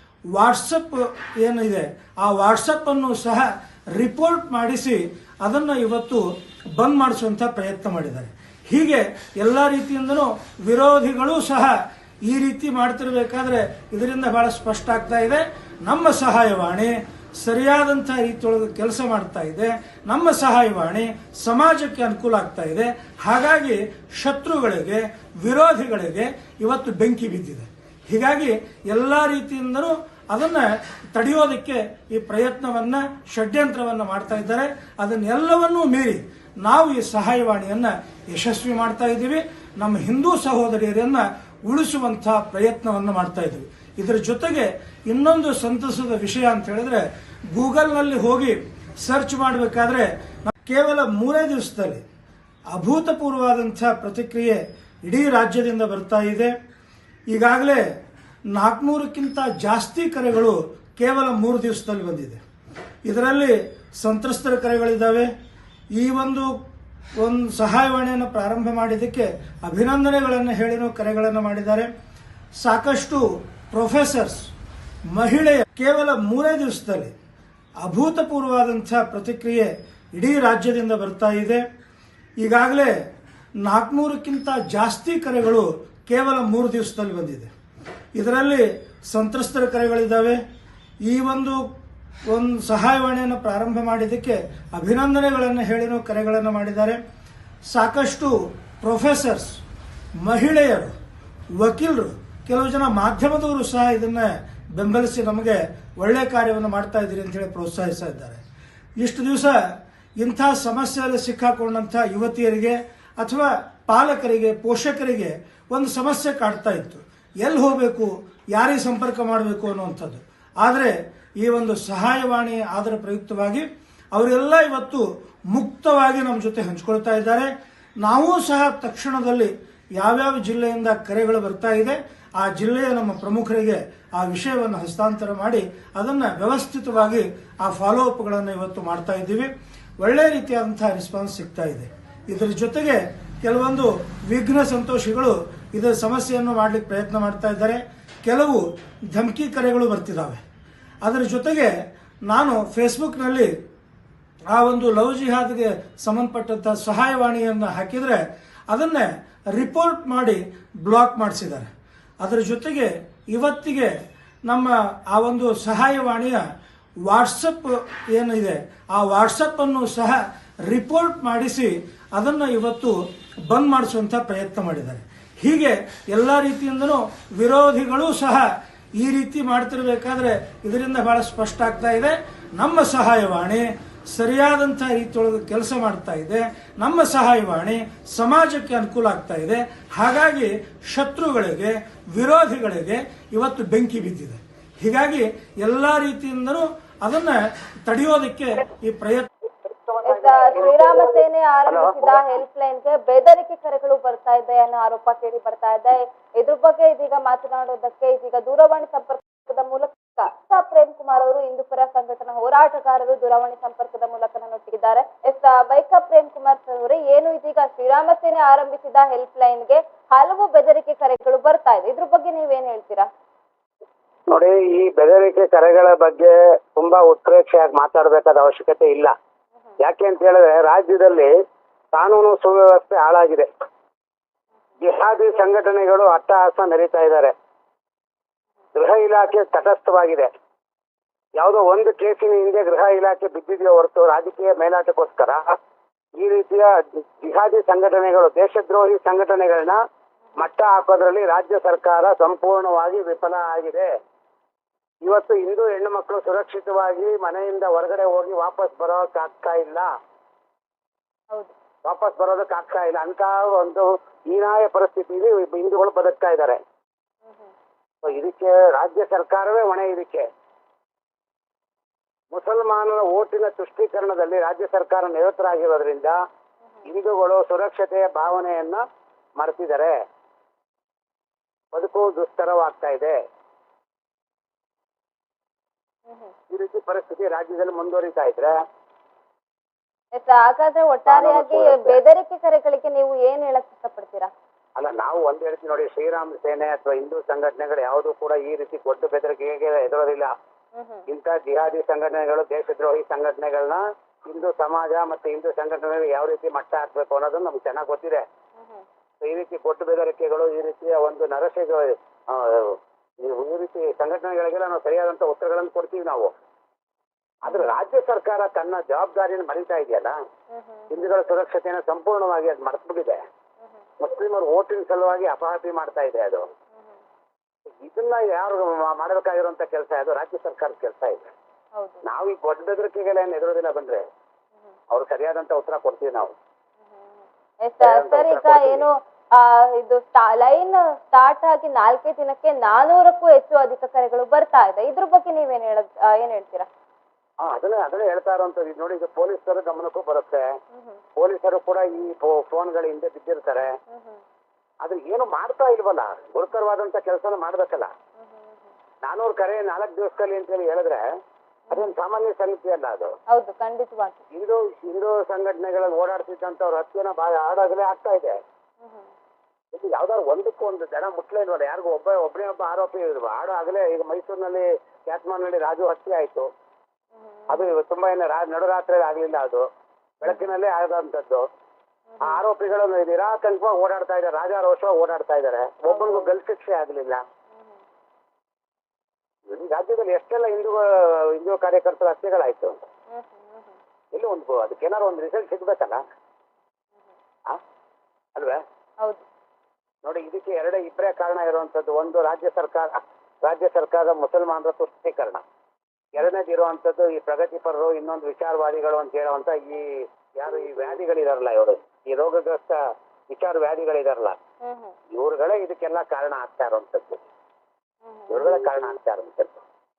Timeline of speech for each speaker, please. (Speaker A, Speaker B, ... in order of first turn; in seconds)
Speaker A: 0.3-52.0, 52.7-56.5, 57.3-57.9, 58.5-62.4, 63.0-65.3, 65.9-66.5, 67.2-71.9, 72.6-74.5, 75.1-77.1, 77.8-81.6, 82.4-83.0, 83.6-87.5, 88.2-90.4, 91.0-91.6, 92.3-97.0, 97.7-99.6, 100.2-100.9, 101.6-108.4, 109.0-127.5, 128.0-150.4, 151.0-151.7, 152.3-153.5, 154.5-161.7, 162.2-163.9, 164.4-166.4, 167.1-199.3
Speaker B: 199.6-202.1, 224.3-229.1, 229.8-231.3, 231.9-233.5, 234.8-237.3, 238.7-240.3, 241.4-245.5, 246.2-249.8, 250.4-253.9, 255.0-259.9, 261.8-266.6, 268.0-270.3, 272.3-276.2, 276.9-278.8, 279.4-280.0, 281.7-283.2, 286.5-288.5, 291.1-292.0, 294.8-300.3, 301.1-308.2, 309.2-316.3, 317.4-320.2, 320.9-323.2, 324.0-326.5, 327.7-331.3, 332.1-334.0, 334.9-336.3, 337.8-338.9, 347.4-350.4, 351.2-353.7, 354.8-357.9, 359.0-361.0, 361.7-363.1, 364.3-368.4, 369.7-376.5, 377.5-379.6, 380.2-381.4, 382.2-387.2, 389.5-392.8, 394.1-396.0, 398.3-398.6, 400.0-405.4, 406.1-414.4, 415.1-417.2, 418.3-419.6
Speaker C: 200.0-223.1, 267.2-267.5, 286.1-286.3, 290.1-294.3, 300.8-301.1, 308.6-308.8, 317.4-317.7, 320.5-321.1, 331.8-332.0, 336.9-346.7, 350.7-351.0, 353.9-354.2, 358.2-358.6, 363.3-364.2, 368.8-369.1, 377.1-377.8, 380.2-380.5, 382.1-382.4, 385.9-386.3, 393.1-393.7, 414.6-414.9, 418.0-418.7